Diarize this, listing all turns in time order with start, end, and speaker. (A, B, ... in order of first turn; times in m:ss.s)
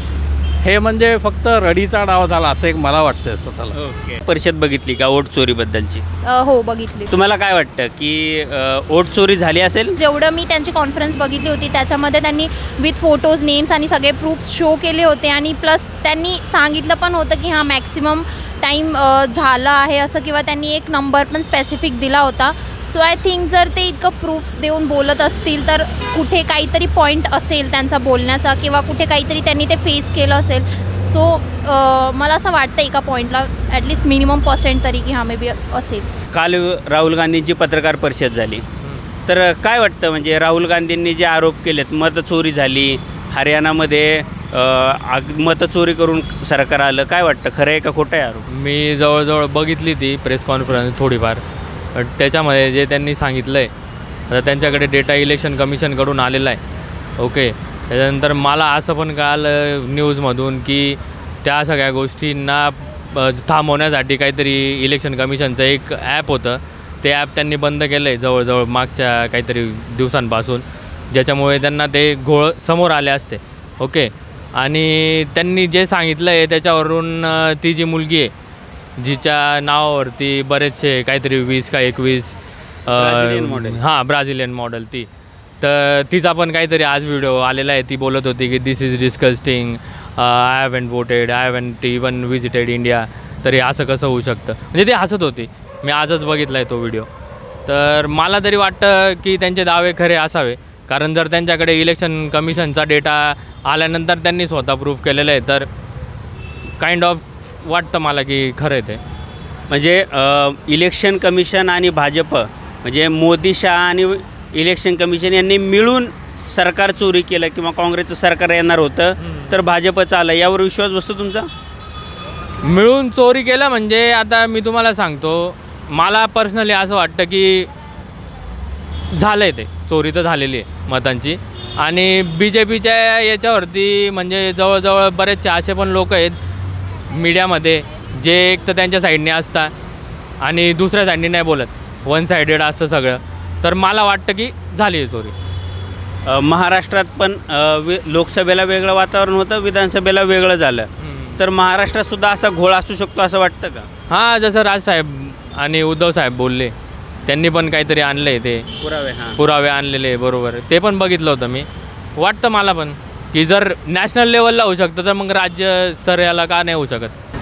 0:00.6-0:03.7 A
0:03.8-0:06.0 B
0:06.2-0:07.1 C
0:07.1-0:10.0 B
0:10.0-0:36.1 C
0:36.3-0:38.6 B
0:39.2-0:48.4 B
0:48.5-0:51.4 D
0:51.9-0:53.7 D
0:54.3-0:56.6 D
0:57.2-1:18.3 D
1:19.0-1:22.4 D
1:22.9-1:25.1 D
1:22.9-1:23.8 B
1:25.6-1:37.1 D
1:37.7-1:45.7 D
1:46.8-1:49.0 D
1:49.7-2:01.5 B
1:59.2-1:59.6 D
2:02.6-2:07.7 D
2:09.1-2:16.4 D
2:17.1-2:19.7 D
2:20.4-2:25.3 D
2:26.3-2:33.9 B
2:31.0-2:31.4 D
2:34.1-2:36.7 D
2:37.3-2:38.6 D
2:38.8-2:39.4 B
2:39.4-2:47.1 D